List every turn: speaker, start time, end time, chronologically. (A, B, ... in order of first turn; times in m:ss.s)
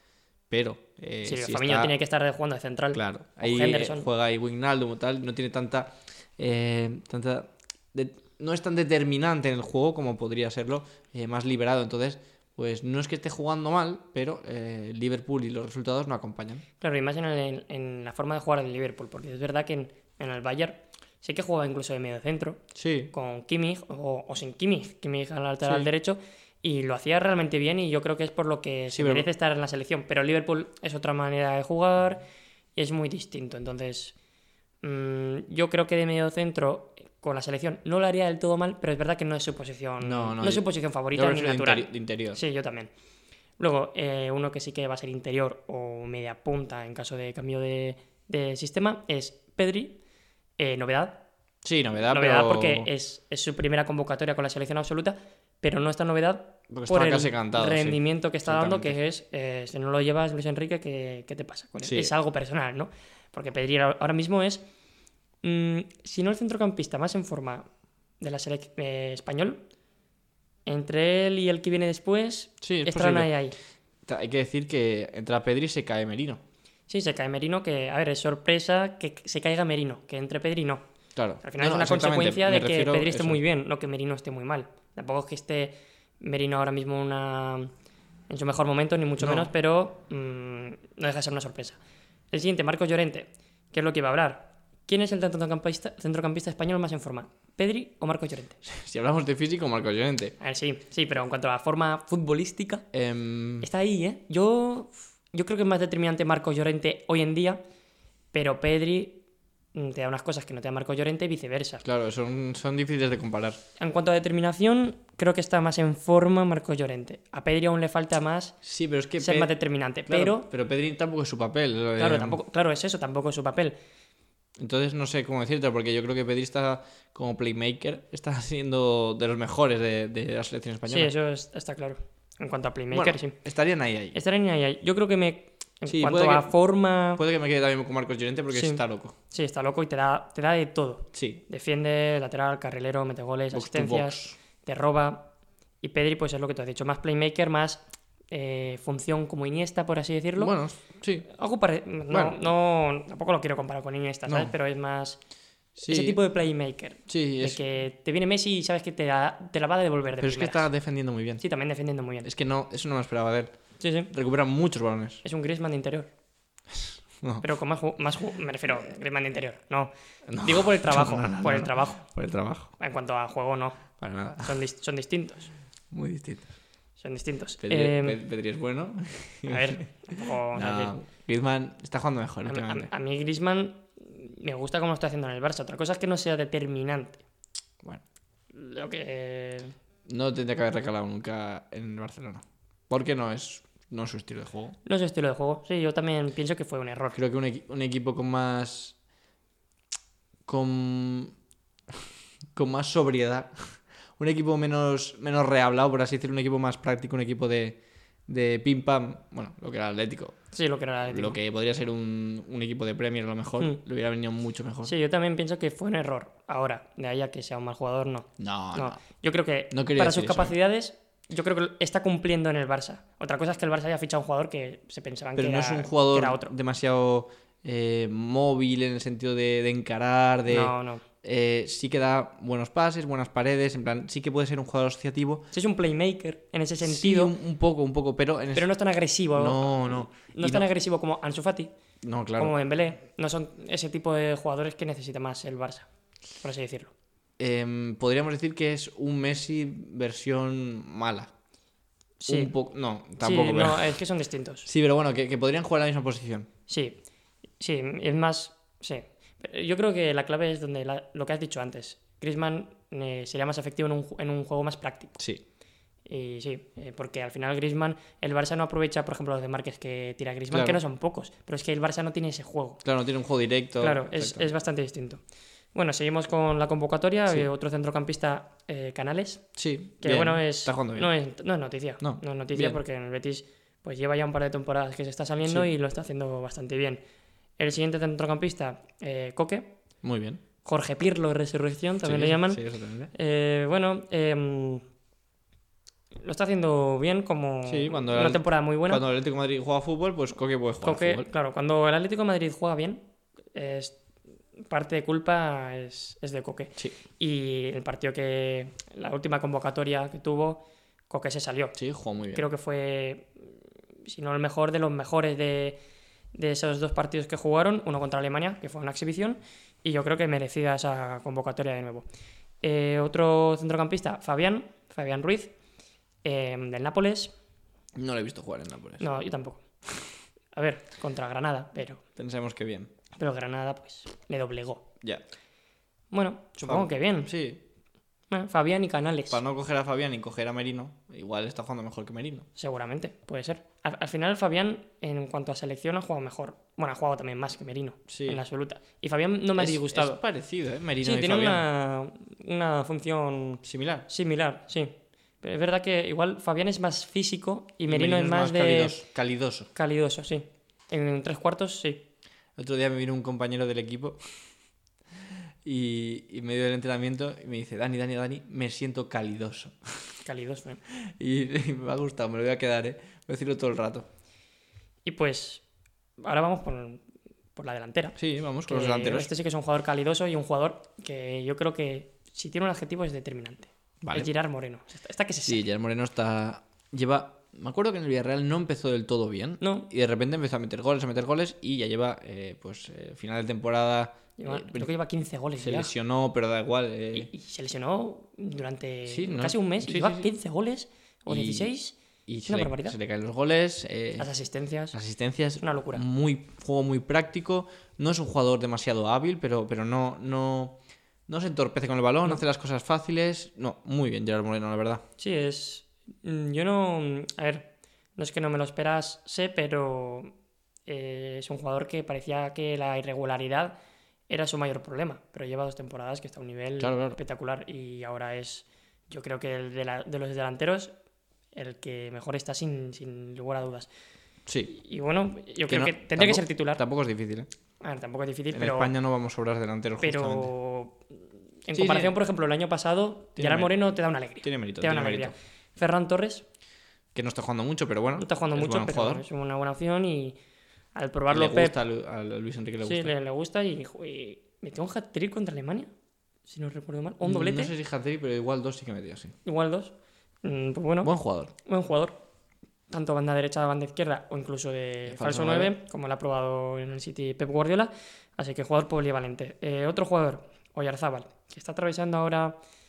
0:00.5-0:01.9 A
0:01.2-0:04.1 B
0:02.9-0:16.6 A
0:16.8-0:32.2 B
0:22.8-0:23.1 A
0:25.6-0:25.9 A
0:28.9-0:29.3 A
0:32.8-0:34.1 B
0:34.8-0:42.9 B
0:40.0-0:42.4 A
0:43.6-0:50.0 B
0:50.6-0:51.2 B
0:51.6-0:52.9 A
0:52.1-1:04.6 B
0:56.7-0:59.0 A
1:01.8-1:02.1 A
1:05.4-1:07.6 B
1:08.2-1:09.6 B
1:10.7-1:13.6 B
1:12.6-1:13.3 A
1:14.1-1:16.4 A
1:16.9-1:20.8 B
1:21.2-1:23.4 A
1:21.4-1:27.7 B
1:28.3-1:31.8 B
1:29.2-1:29.5 A
1:32.3-1:38.6 B
1:38.7-1:40.4 A
1:40.4-1:42.9 B
1:42.9-1:43.7 A
1:43.6-1:47.6 B
1:48.3-1:49.2 B
1:49.7-1:51.8 B
1:51.8-1:53.6 A
1:53.8-1:58.6 B
1:58.6-1:59.5 A
1:59.2-2:00.5 B
2:00.1-2:02.4 A
2:02.0-2:03.8 B
2:04.6-2:11.1 A
2:10.9-2:13.4 B
2:12.9-2:14.2 A
2:14.1-2:17.2 B
2:15.9-2:16.5 A
2:17.2-2:19.2 A
2:18.5-2:25.3 B
2:21.1-2:21.4 A
2:23.5-2:24.4 A
2:25.8-2:30.5 B
2:30.4-2:31.3 A
2:31.3-2:35.2 B
2:32.1-2:32.4 A
2:34.3-2:34.5 A
2:35.8-2:36.2 A
2:35.8-2:40.7 B
2:37.1-2:37.6 A
2:40.2-2:41.4 A
2:41.4-2:42.3 B
2:42.2-2:43.6 A
2:43.8-2:44.1 B
2:44.1-2:45.2 A
2:45.2-2:46.1 B
2:46.7-2:47.4 A
2:47.4-2:52.0 B
2:50.3-2:52.7 A
2:52.8-2:53.8 B
2:54.0-2:54.6 A
2:54.4-2:55.5 B
2:55.9-2:56.5 A
2:57.0-2:58.2 B
2:57.6-2:59.9 A
2:59.5-3:01.0 B
3:00.5-3:02.9 A
3:02.5-3:07.2 B
3:08.5-3:09.8 B
3:10.1-3:14.8 A
3:14.8-3:17.2 B
3:17.1-3:19.0 A
3:20.5-3:21.3 A
3:22.5-3:30.4 A
3:30.5-3:31.4 B
3:31.1-3:34.9 A
3:34.8-3:46.5 B
3:38.4-3:39.0 A
3:39.7-3:40.6 A
3:45.4-3:55.5 A
3:50.5-3:51.0 B
3:55.5-3:57.3 B
3:56.8-3:58.7 A
3:58.6-4:01.7 B
3:59.3-4:00.6 A
4:02.0-4:02.6 A
4:02.4-4:06.9 B
4:07.4-4:11.3 A
4:12.2-4:12.5 B
4:12.3-4:14.0 A
4:13.2-4:14.7 B
4:14.7-4:16.5 A
4:16.7-4:17.0 B
4:17.6-4:25.2 B
4:26.1-4:32.8 B
4:30.5-4:30.8 A
4:32.8-4:34.5 A
4:33.8-4:35.2 B
4:35.7-4:39.5 B
4:39.6-4:41.1 A
4:40.0-4:47.0 B
4:42.0-4:42.8 A
4:47.6-4:49.8 B
4:50.0-4:50.4 A
4:50.6-4:54.8 B
4:52.0-4:53.1 A
4:56.2-4:59.0 B
4:57.7-5:01.3 A
5:00.8-5:04.0 B
5:04.7-5:11.8 B
5:11.8-5:12.4 A
5:12.3-5:13.5 B
5:14.0-5:15.8 B
5:16.3-5:22.0 B
5:22.6-5:25.5 B
5:26.2-5:27.3 B
5:28.0-5:29.1 A
5:29.0-5:29.7 B
5:30.5-5:32.0 B
5:32.2-5:32.9 A
5:33.2-5:34.9 B
5:36.1-5:37.3 B
5:36.6-5:37.6 A
5:38.3-5:39.4 B
5:39.3-5:42.5 A
5:42.6-5:50.2 B
5:48.1-5:48.4 A
5:49.6-5:51.6 A
5:51.0-5:59.0 B
5:53.6-5:54.1 A
5:57.9-5:59.7 A
5:59.7-6:02.0 B
6:02.6-6:04.3 A
6:05.6-6:10.1 A
6:10.2-6:10.8 B
6:11.0-6:14.1 A
6:15.1-6:15.6 B
6:16.2-6:17.0 B
6:17.6-6:25.6 B
6:18.2-6:19.3 A
6:24.0-6:24.3 A
6:25.5-6:34.9 A
6:29.6-6:29.9 B
6:34.4-6:35.9 B
6:35.6-6:37.3 A
6:37.1-6:43.0 B
6:39.1-6:40.3 A
6:41.3-6:41.7 A
6:42.3-6:44.3 A
6:44.2-6:45.0 B
6:44.9-6:55.0 A
6:45.6-6:46.0 B
6:55.2-7:00.3 B
7:00.9-7:03.8 B
7:04.3-7:10.9 B
7:06.8-7:07.2 A
7:11.5-7:13.9 B
7:14.7-7:16.8 B
7:15.7-7:17.5 A
7:17.8-7:18.9 B
7:18.5-7:20.5 A
7:20.0-7:21.0 B
7:21.6-7:26.4 B
7:21.7-7:22.1 A
7:23.4-7:23.7 A
7:24.4-7:25.3 A
7:27.1-7:29.2 A
7:28.2-7:30.4 B
7:31.0-7:31.8 B
7:31.3-7:33.1 A
7:32.8-7:35.9 B
7:36.5-7:37.7 B
7:37.2-7:39.3 A
7:39.4-7:42.2 B
7:41.0-7:41.5 A
7:42.9-7:52.6 B
7:45.1-7:45.7 A